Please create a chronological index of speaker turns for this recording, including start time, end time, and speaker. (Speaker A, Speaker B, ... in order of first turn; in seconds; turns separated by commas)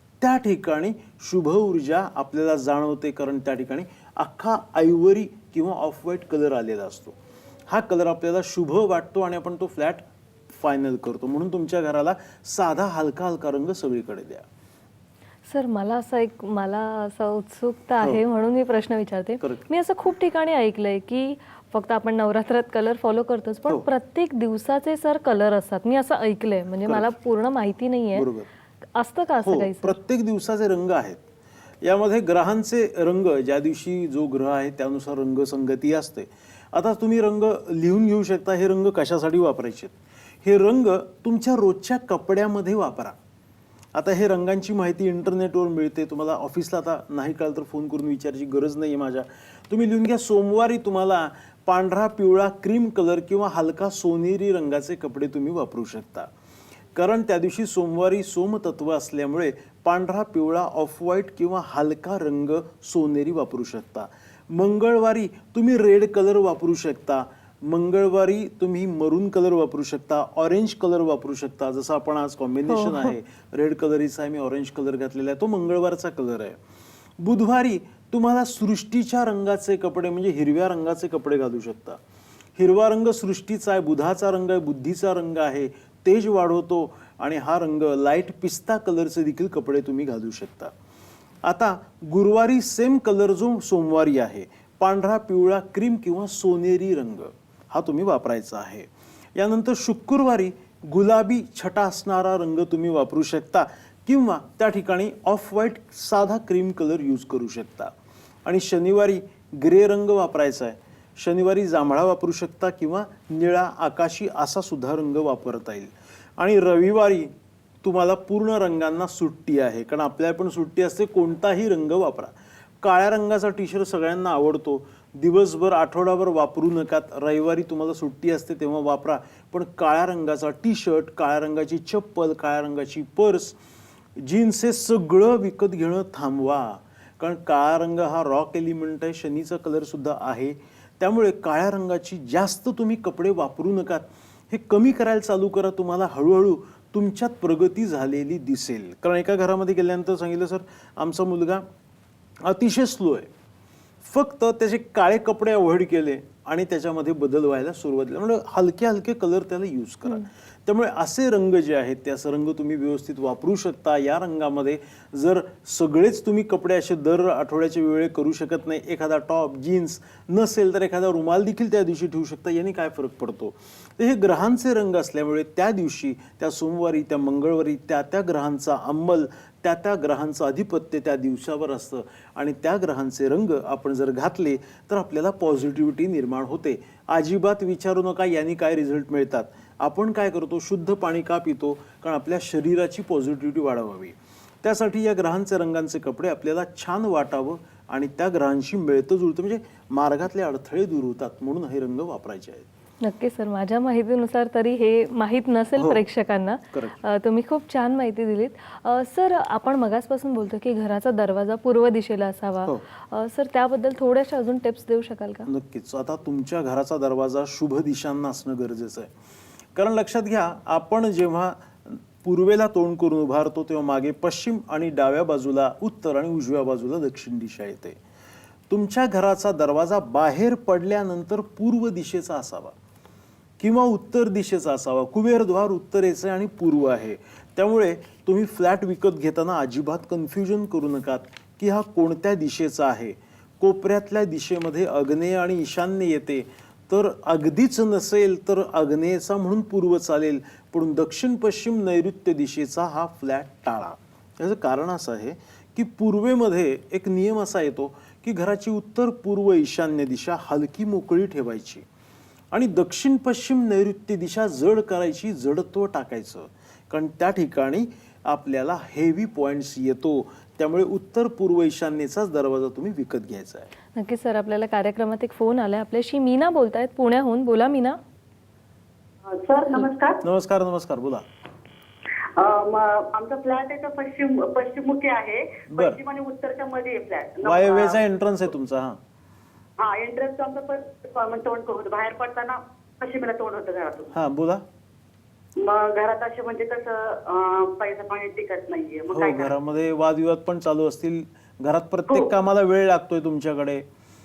Speaker A: 0.2-7.2, Speaker A: 7.7-14.5, Speaker B: 15.5-28.3, Speaker A: 28.1-28.5, Speaker B: 28.9-30.0, Speaker A: 29.4-31.2, Speaker A: 31.8-43.2, Speaker A: 44.0-56.3, Speaker A: 57.0-76.6, Speaker B: 72.7-73.1, Speaker A: 77.2-82.0, Speaker A: 82.6-90.7, Speaker A: 91.5-107.9, Speaker A: 108.5-117.3, Speaker A: 117.8-133.6, Speaker A: 134.2-151.7, Speaker A: 152.4-153.3, Speaker A: 154.0-202.7, Speaker B: 203.0-215.5, Speaker A: 205.8-206.0, Speaker A: 215.5-219.1, Speaker A: 219.8-228.0, Speaker A: 228.7-232.8, Speaker A: 233.6-261.9, Speaker A: 262.5-273.7, Speaker B: 274.0-278.0, Speaker C: 279.3-280.2, Speaker A: 280.2-281.2, Speaker C: 282.4-288.0, Speaker A: 285.7-286.0, Speaker A: 287.4-289.0, Speaker C: 289.8-294.1, Speaker A: 294.1-294.6, Speaker C: 295.6-299.6, Speaker A: 299.1-303.9